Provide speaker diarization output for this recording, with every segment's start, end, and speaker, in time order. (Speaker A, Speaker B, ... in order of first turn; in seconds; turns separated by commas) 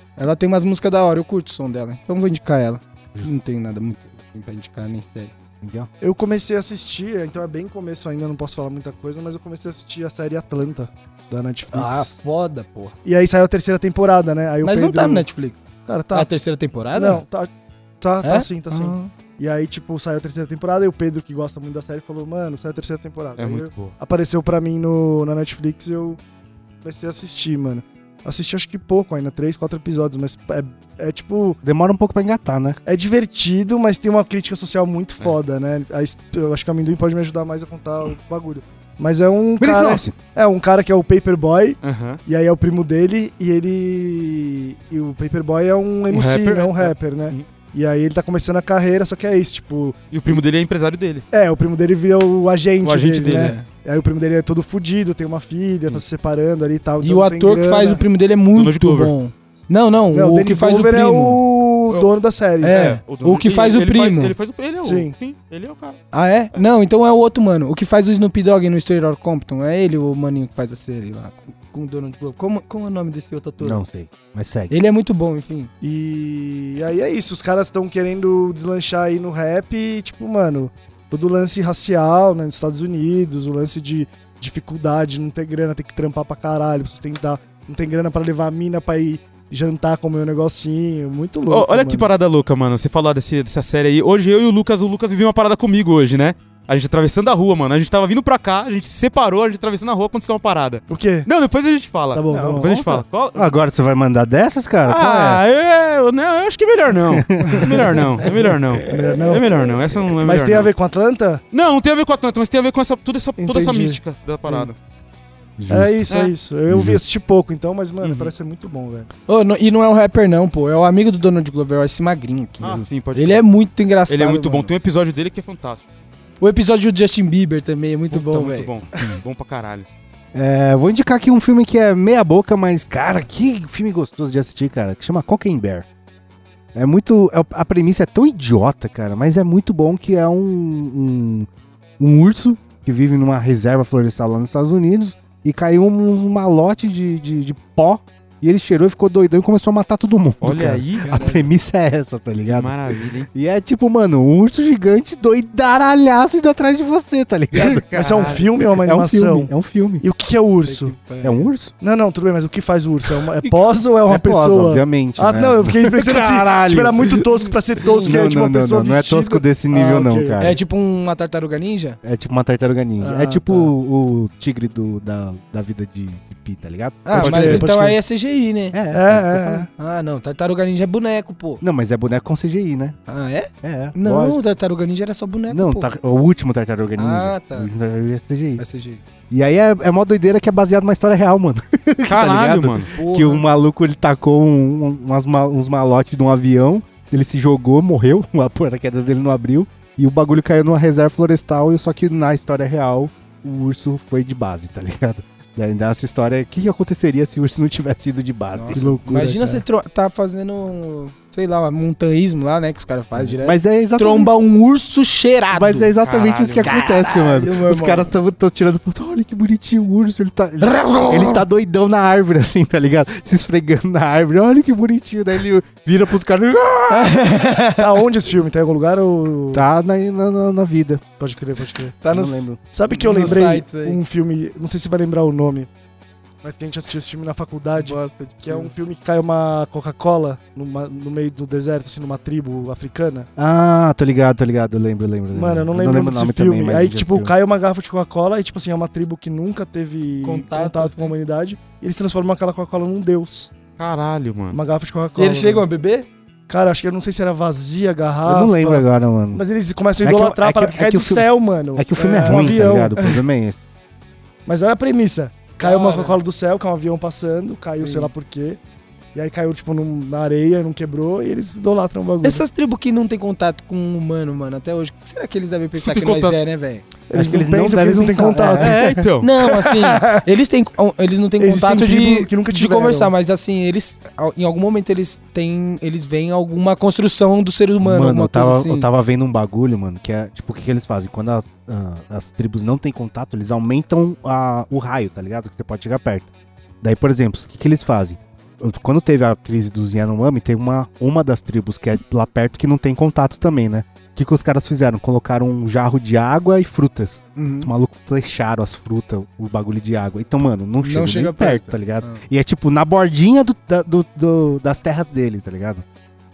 Speaker A: 0.2-5.3, Speaker B: 5.6-5.9, Speaker C: 6.0-12.1, Speaker A: 11.7-12.9, Speaker C: 13.0-15.3, Speaker A: 14.6-15.6, Speaker C: 15.8-16.3, Speaker A: 16.1-17.2, Speaker C: 16.9-17.5, Speaker C: 18.0-26.2, Speaker A: 18.2-19.1, Speaker D: 23.4-23.9, Speaker C: 26.8-31.6, Speaker B: 31.6-32.8, Speaker C: 32.8-50.4, Speaker B: 39.6-40.1, Speaker D: 41.8-42.2, Speaker D: 46.1-47.5, Speaker D: 50.1-51.2, Speaker C: 51.3-58.0, Speaker D: 52.8-53.6, Speaker A: 53.4-53.6, Speaker A: 57.0-61.4, Speaker D: 58.5-59.1, Speaker C: 60.1-62.8, Speaker D: 61.9-66.0, Speaker A: 62.6-64.3, Speaker C: 64.8-65.1, Speaker A: 66.1-73.8, Speaker B: 73.6-74.7, Speaker A: 74.7-75.7, Speaker C: 75.8-92.1, Speaker D: 91.5-103.6, Speaker C: 100.9-101.3, Speaker C: 102.1-102.7, Speaker B: 102.3-105.4, Speaker D: 104.8-110.7, Speaker B: 107.0-108.0, Speaker C: 108.8-111.4, Speaker D: 111.5-114.8, Speaker C: 113.4-114.7, Speaker B: 115.6-116.1, Speaker C: 115.7-119.1, Speaker B: 116.7-117.0, Speaker D: 118.0-118.3, Speaker A: 119.3-124.7, Speaker D: 122.6-123.4, Speaker D: 124.1-125.8, Speaker A: 126.4-128.7, Speaker D: 128.1-129.8, Speaker B: 130.3-135.8, Speaker B: 136.7-141.5, Speaker B: 142.0-152.8, Speaker D: 150.4-151.1, Speaker A: 151.0-151.5, Speaker D: 152.4-153.3, Speaker B: 153.3-160.0, Speaker D: 157.6-158.5, Speaker C: 157.7-159.5, Speaker C: 160.0-160.9, Speaker A: 160.7-161.5, Speaker B: 161.2-161.7, Speaker C: 161.8-170.4, Speaker B: 164.1-170.6, Speaker A: 167.8-168.2, Speaker A: 170.4-172.0, Speaker B: 172.0-177.7, Speaker C: 173.0-173.5, Speaker A: 177.1-178.8, Speaker C: 177.1-177.9, Speaker B: 178.7-179.7, Speaker C: 178.9-179.7, Speaker A: 179.8-181.6, Speaker B: 181.6-183.0, Speaker A: 183.1-185.9, Speaker B: 183.6-184.4, Speaker B: 185.5-188.6, Speaker A: 187.0-187.7, Speaker A: 188.6-189.0, Speaker B: 189.3-209.0, Speaker D: 192.1-192.9, Speaker A: 192.9-193.4, Speaker A: 208.5-215.9, Speaker C: 208.7-209.6, Speaker B: 213.1-214.3, Speaker B: 215.5-227.3, Speaker D: 216.0-216.7, Speaker A: 216.6-218.1, Speaker A: 220.6-221.4, Speaker A: 226.9-227.9, Speaker C: 227.8-229.7, Speaker B: 229.5-231.0, Speaker C: 231.2-231.9, Speaker A: 232.0-234.0, Speaker B: 232.1-232.6, Speaker C: 232.7-235.7, Speaker C: 236.4-243.3, Speaker A: 237.8-238.7, Speaker B: 243.4-247.3, Speaker C: 245.3-253.5, Speaker A: 250.2-251.1, Speaker D: 253.8-254.6, Speaker C: 254.5-255.7, Speaker A: 255.2-256.1, Speaker C: 256.5-263.2, Speaker B: 258.2-259.4, Speaker B: 260.0-263.6, Speaker A: 262.2-262.6, Speaker C: 264.4-268.6, Speaker A: 265.6-266.2, Speaker A: 267.8-268.1, Speaker C: 269.1-272.4, Speaker A: 272.2-276.8, Speaker D: 275.8-276.4, Speaker C: 277.1-278.8, Speaker B: 277.1-279.1, Speaker D: 278.6-279.3, Speaker A: 279.2-288.9, Speaker C: 279.5-280.2, Speaker C: 281.4-283.1, Speaker B: 287.8-296.3, Speaker B: 296.8-315.8, Speaker A: 307.4-307.7, Speaker A: 310.8-312.2